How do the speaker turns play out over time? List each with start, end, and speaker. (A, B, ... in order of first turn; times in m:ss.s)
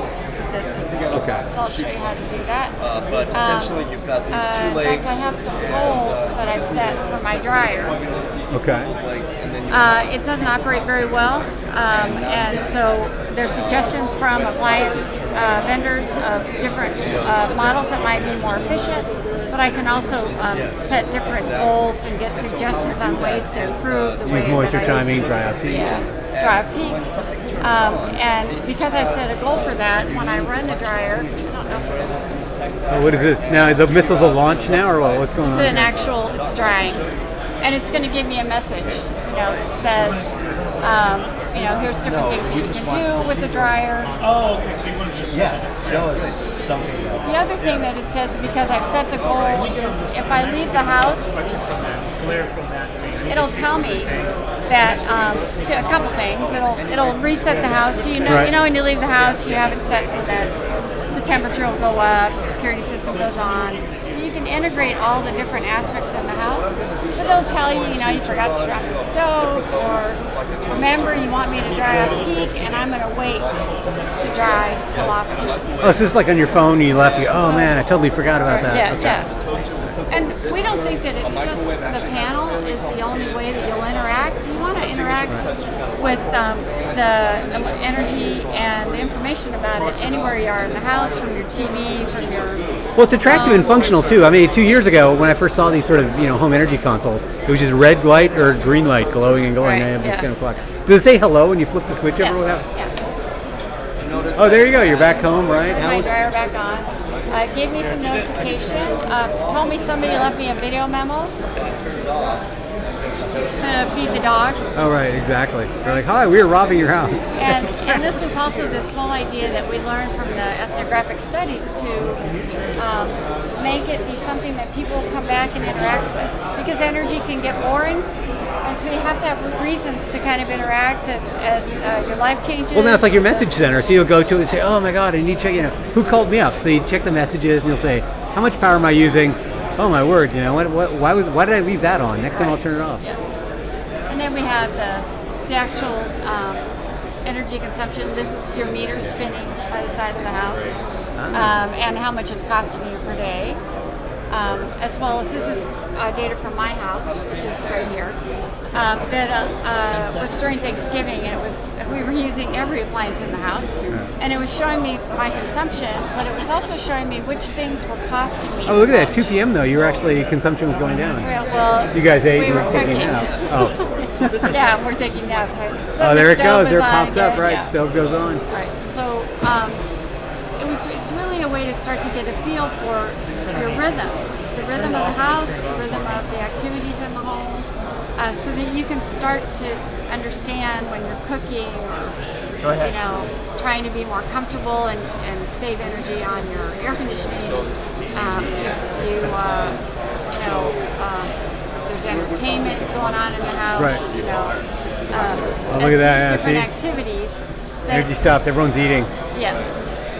0:00.3-0:02.8 A
0:01.0-0:01.8 B
0:01.1-0:01.4 C
0:02.8-0:09.9 B
0:03.3-0:03.8 A
0:04.3-0:08.0 A
0:08.5-0:08.9 C
0:09.7-0:27.0 A
0:11.9-0:13.1 B
0:14.2-0:15.5 B
0:17.0-0:19.0 B
0:20.4-0:21.8 B
0:22.5-0:37.1 B
0:24.2-0:25.9 C
0:27.6-0:32.1 A
0:32.9-0:35.9 C
0:35.4-0:37.0 A
0:37.6-0:44.2 A
0:42.4-0:43.1 B
0:44.4-0:45.8 D
0:45.3-0:47.2 B
0:47.2-0:51.4 A
0:51.4-0:53.3 D
0:53.3-1:00.5 A
0:58.2-0:58.5 C
1:01.1-1:15.6 A
1:07.9-1:08.9 B
1:10.2-1:10.9 B
1:15.7-1:16.1 B
1:15.8-1:19.2 C
1:17.4-1:17.8 A
1:18.4-1:19.3 A
1:19.1-1:23.0 B
1:20.1-1:32.6 A
1:25.0-1:26.2 B
1:28.4-1:28.7 B
1:33.0-1:42.6 C
1:33.2-1:33.8 A
1:33.6-1:34.3 B
1:39.6-1:40.3 A
1:42.2-1:42.9 A
1:44.0-1:46.0 B
1:44.4-1:46.1 C
1:45.6-1:51.3 A
1:51.7-1:52.5 B
1:53.0-1:53.6 B
1:53.6-1:54.6 A
1:54.8-1:58.0 C
1:57.3-2:08.1 A
2:08.6-2:13.5 A
2:12.7-2:23.0 C
2:22.3-2:23.3 A
2:24.1-2:26.7 A
2:27.2-2:30.8 A
2:31.2-2:31.6 C
2:31.3-2:33.6 A
2:34.3-2:38.2 A
2:38.7-2:49.3 A
2:48.7-2:54.5 C
2:51.2-2:57.7 A
2:54.2-2:54.5 B
2:56.0-2:58.4 C
2:58.5-2:59.8 A
3:00.6-3:12.2 A
3:12.7-3:28.1 A
3:23.8-3:24.0 C
3:25.7-3:26.7 C
3:27.9-3:29.1 C
3:29.3-3:29.8 A